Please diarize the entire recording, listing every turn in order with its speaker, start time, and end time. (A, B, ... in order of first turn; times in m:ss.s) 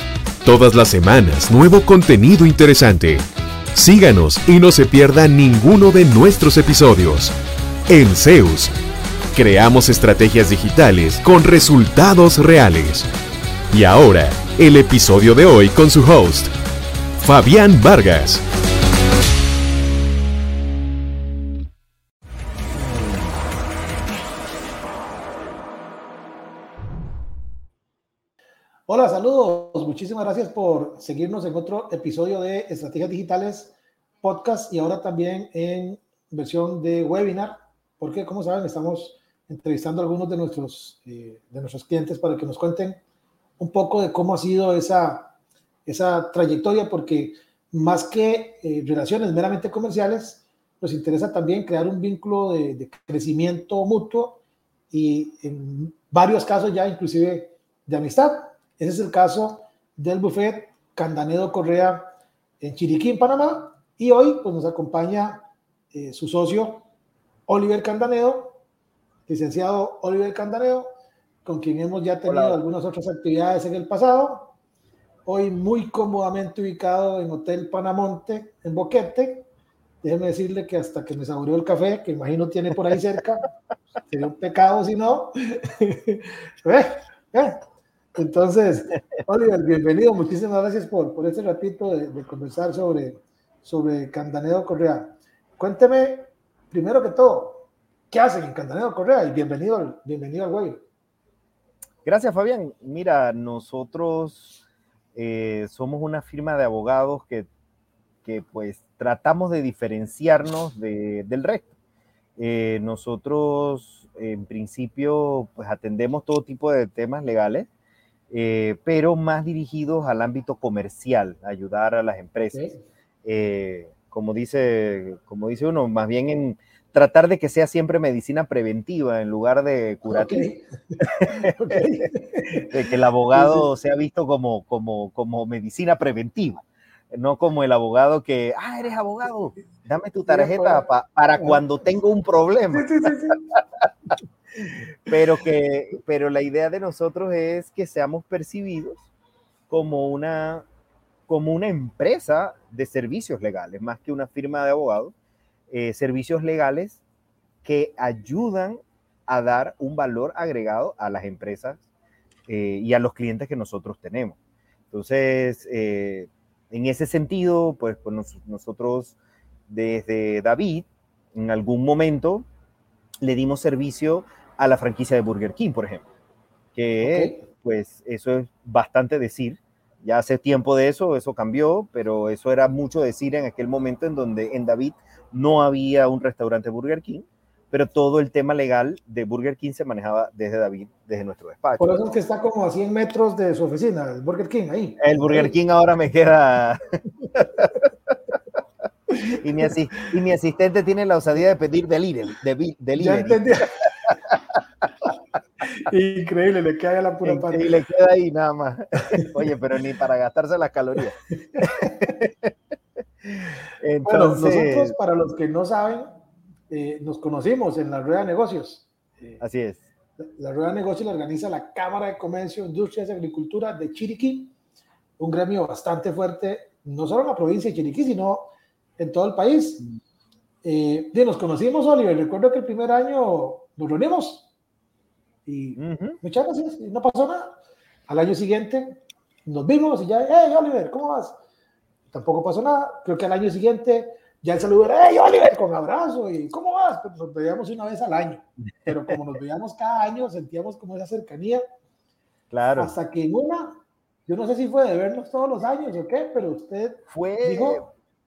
0:00.4-0:03.2 A
0:03.7-0:07.3 A
0:07.9-0:08.7 A
0:09.3-0:13.1 A
0:13.7-0:16.5 A
0:17.2-0:18.4 A
0:28.9-0:43.0 B
0:43.6-0:45.3 B
0:45.8-0:54.4 B
0:54.9-1:06.8 B
1:07.5-1:08.6 B
1:09.3-1:10.9 B
1:11.4-1:14.5 B
1:12.2-1:12.6 C
1:15.2-1:19.5 B
1:20.0-1:23.5 B
1:24.1-1:27.6 B
1:28.2-1:40.8 B
1:42.0-1:44.6 C
1:45.1-1:47.5 C
1:48.2-1:51.7 C
1:52.4-1:57.7 C
1:58.3-2:02.7 C
2:02.5-2:02.8 B
2:03.2-2:10.5 C
2:10.1-2:12.7 B
2:11.0-2:11.8 C
2:12.6-2:23.1 C
2:13.3-2:13.7 B
2:20.3-2:20.8 B
2:21.4-2:21.6 B
2:22.7-2:23.5 B
2:25.1-2:29.0 C
2:29.7-2:30.6 C
2:31.3-2:35.1 C
2:35.7-2:37.0 C
2:37.6-2:41.8 C
2:42.5-2:44.4 C
2:44.9-2:49.2 C
2:49.7-2:52.4 C
2:53.2-2:56.0 C
2:56.7-3:11.9 C
2:57.0-2:57.4 B
3:11.8-3:15.5 B
3:15.0-3:18.3 C
3:19.4-3:23.4 C
3:23.0-3:23.9 B
3:24.0-3:24.6 C
3:25.6-3:27.7 B
3:27.2-3:32.5 C
3:33.2-3:34.9 C
3:34.0-3:36.1 B
3:36.7-3:39.4 B
3:39.4-3:39.8 C
3:40.2-3:44.5 B
3:45.2-3:49.8 B
3:50.6-3:54.5 B
3:55.4-3:57.5 B
3:55.8-3:56.2 C
3:58.1-4:01.4 B
4:02.1-4:11.6 B
4:12.5-4:12.9 C
4:12.8-4:17.8 B
4:17.1-4:17.8 C